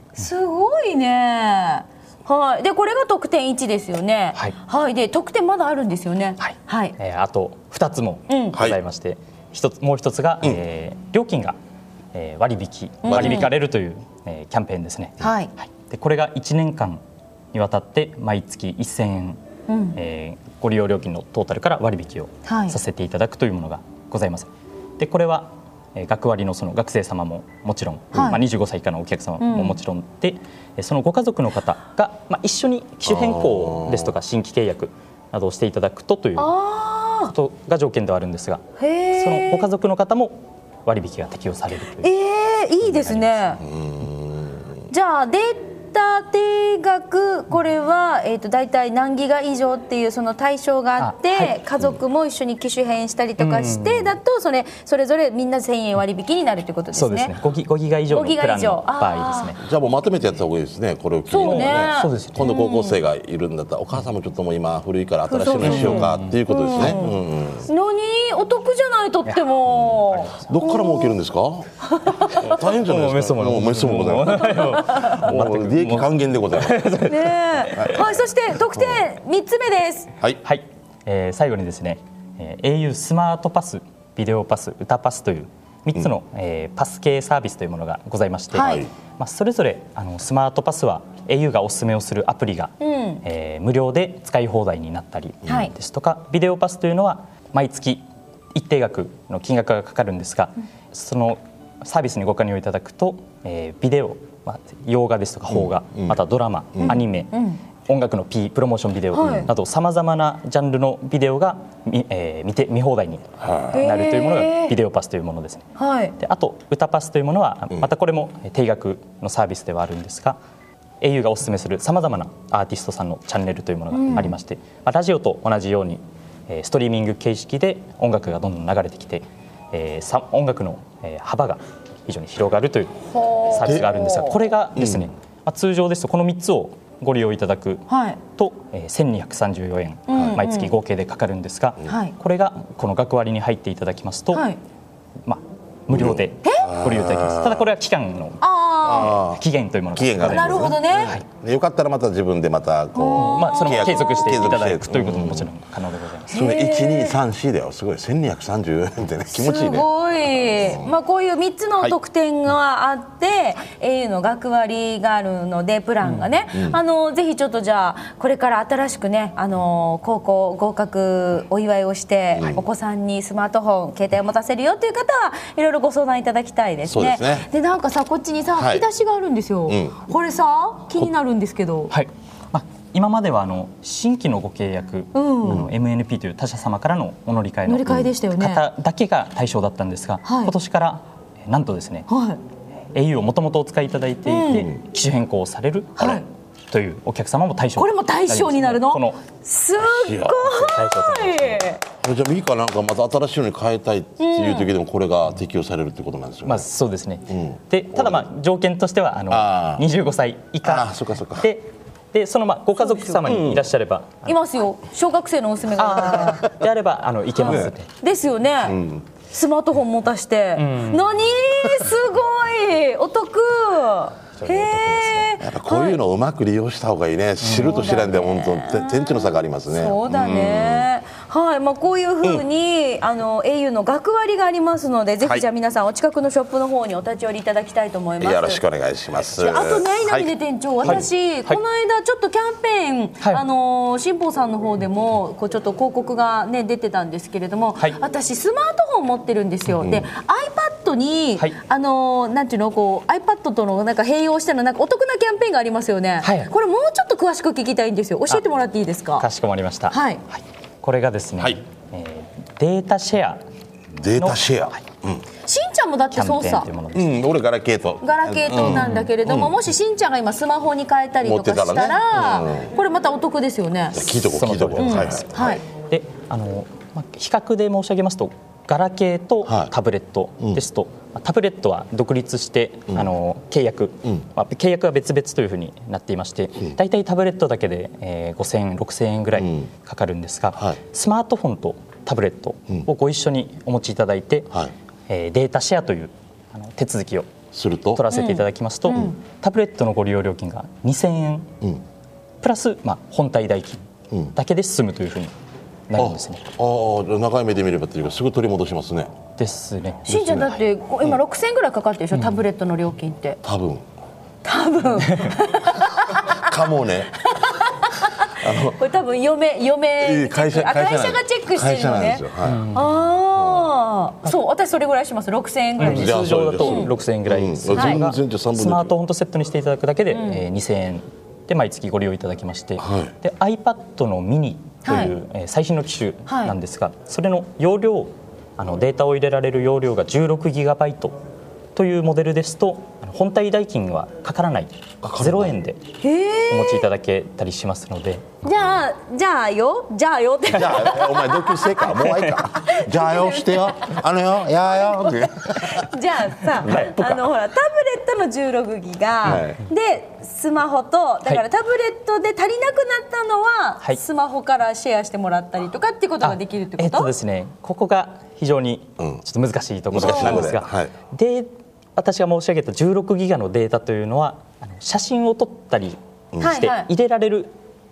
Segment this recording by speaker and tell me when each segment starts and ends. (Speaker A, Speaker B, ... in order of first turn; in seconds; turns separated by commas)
Speaker A: 0.2-7.0, Speaker B: 6.4-11.6, Speaker A: 8.3-8.6, Speaker C: 8.5-8.8, Speaker B: 12.1-17.0, Speaker A: 13.0-13.5, Speaker C: 13.1-13.5, Speaker A: 15.2-15.5, Speaker B: 17.5-19.4, Speaker A: 19.7-20.0, Speaker B: 19.9-36.5, Speaker A: 22.5-22.8, Speaker A: 28.1-28.4, Speaker A: 29.4-29.8, Speaker C: 33.0-34.1, Speaker A: 36.4-37.3, Speaker B: 37.3-42.1, Speaker A: 38.8-39.7, Speaker A: 42.0-43.6, Speaker B: 42.9-43.5, Speaker C: 43.6-44.7, Speaker A: 44.9-57.3, Speaker B: 51.0-51.6, Speaker B: 53.4-54.1, Speaker B: 56.9-59.6, Speaker A: 58.1-59.5, Speaker C: 59.6-67.7, Speaker A: 61.3-63.0, Speaker B: 61.4-62.5, Speaker A: 65.3-67.1, Speaker B: 65.6-67.1, Speaker A: 67.7-71.2, Speaker C: 69.7-71.7, Speaker B: 70.1-70.5, Speaker A: 71.9-72.6, Speaker C: 72.4-76.9, Speaker B: 72.4-78.0, Speaker A: 77.1-80.1, Speaker C: 77.8-78.1, Speaker B: 80.4-120.4, Speaker A: 88.5-88.9, Speaker C: 88.6-88.9, Speaker A: 92.8-93.2, Speaker A: 95.5-95.7, Speaker C: 105.5-106.2, Speaker A: 106.8-107.6, Speaker A: 109.1-109.5, Speaker C: 113.4-113.8, Speaker A: 113.7-114.8, Speaker A: 115.8-116.2, Speaker B: 121.0-144.5, Speaker A: 123.9-124.3, Speaker A: 133.1-134.4, Speaker C: 134.8-135.1, Speaker A: 137.9-138.2, Speaker A: 140.1-140.7, Speaker C: 140.1-140.4, Speaker A: 141.9-142.1, Speaker A: 144.3-144.6, Speaker B: 145.3-151.2, Speaker C: 145.9-147.7, Speaker A: 146.4-146.8, Speaker A: 148.4-149.2, Speaker C: 148.8-149.4, Speaker C: 149.9-155.5, Speaker A: 150.2-151.2, Speaker A: 152.9-154.2, Speaker B: 153.1-156.4, Speaker C: 156.3-160.9, Speaker A: 156.3-157.2, Speaker A: 159.3-181.9, Speaker C: 166.5-166.8, Speaker C: 172.3-172.7, Speaker C: 176.9-177.5, Speaker C: 178.6-178.9, Speaker C: 179.7-180.0, Speaker B: 181.9-192.1, Speaker A: 185.1-185.7, Speaker A: 187.7-188.6, Speaker A: 190.2-190.5, Speaker A: 192.1-192.4, Speaker B: 192.9-199.2, Speaker A: 194.3-194.7, Speaker C: 194.5-194.8, Speaker A: 196.0-196.2, Speaker A: 197.8-201.8, Speaker C: 199.8-200.7, Speaker B: 200.6-201.7, Speaker C: 202.0-206.7, Speaker A: 204.2-204.7, Speaker B: 206.4-214.4, Speaker C: 207.3-208.3, Speaker C: 209.3-209.9, Speaker C: 210.6-211.5, Speaker A: 212.8-213.2, Speaker C: 213.2-213.7, Speaker A: 214.2-216.4, Speaker B: 215.8-217.9, Speaker A: 217.4-226.0, Speaker C: 217.4-217.7, Speaker C: 218.6-219.1, Speaker B: 220.6-221.0, Speaker B: 224.4-225.4, Speaker C: 225.4-230.9, Speaker B: 227.4-227.9, Speaker A: 227.4-238.6, Speaker C: 238.2-241.1, Speaker A: 239.2-259.3, Speaker B: 240.8-241.6, Speaker C: 249.8-250.1, Speaker B: 256.2-256.5, Speaker B: 259.2-263.4, Speaker A: 259.9-260.2, Speaker C: 264.0-265.2, Speaker B: 264.1-264.8, Speaker A: 265.4-266.7, Speaker B: 266.1-267.2, Speaker C: 266.9-269.6, Speaker A: 268.0-274.2, Speaker B: 268.6-269.1, Speaker C: 271.2-272.7, Speaker C: 273.9-275.6, Speaker B: 274.2-294.5, Speaker A: 274.8-275.6, Speaker C: 279.4-279.7, Speaker C: 289.4-289.7, Speaker B: 295.1-297.3, Speaker C: 297.5-298.0, Speaker B: 297.9-301.5, Speaker A: 298.1-299.1, Speaker B: 302.4-305.3, Speaker B: 305.9-306.4, Speaker C: 306.0-309.1, Speaker B: 309.4-310.6, Speaker A: 310.1-313.4, Speaker C: 313.4-313.9, Speaker A: 314.4-316.5, Speaker C: 316.3-317.2, Speaker A: 317.3-326.9, Speaker C: 318.4-318.8, Speaker C: 320.0-322.6, Speaker B: 322.5-323.0, Speaker C: 323.4-323.7, Speaker B: 325.8-341.2, Speaker C: 325.8-328.9, Speaker A: 327.7-328.0, Speaker A: 330.1-330.4, Speaker C: 332.8-333.1, Speaker A: 334.9-335.1, Speaker A: 336.3-336.6, Speaker B: 341.8-345.8, Speaker C: 345.0-345.6, Speaker A: 346.0-346.9, Speaker B: 346.5-348.3, Speaker A: 348.4-354.0, Speaker C: 350.5-355.9, Speaker B: 352.1-352.4, Speaker A: 354.5-367.1, Speaker B: 356.6-357.2, Speaker C: 356.8-357.1, Speaker C: 359.2-359.6, Speaker B: 359.2-359.5, Speaker B: 366.2-377.6, Speaker C: 369.0-369.2, Speaker C: 369.9-370.9, Speaker A: 370.0-370.5, Speaker C: 376.3-376.6, Speaker A: 376.4-376.9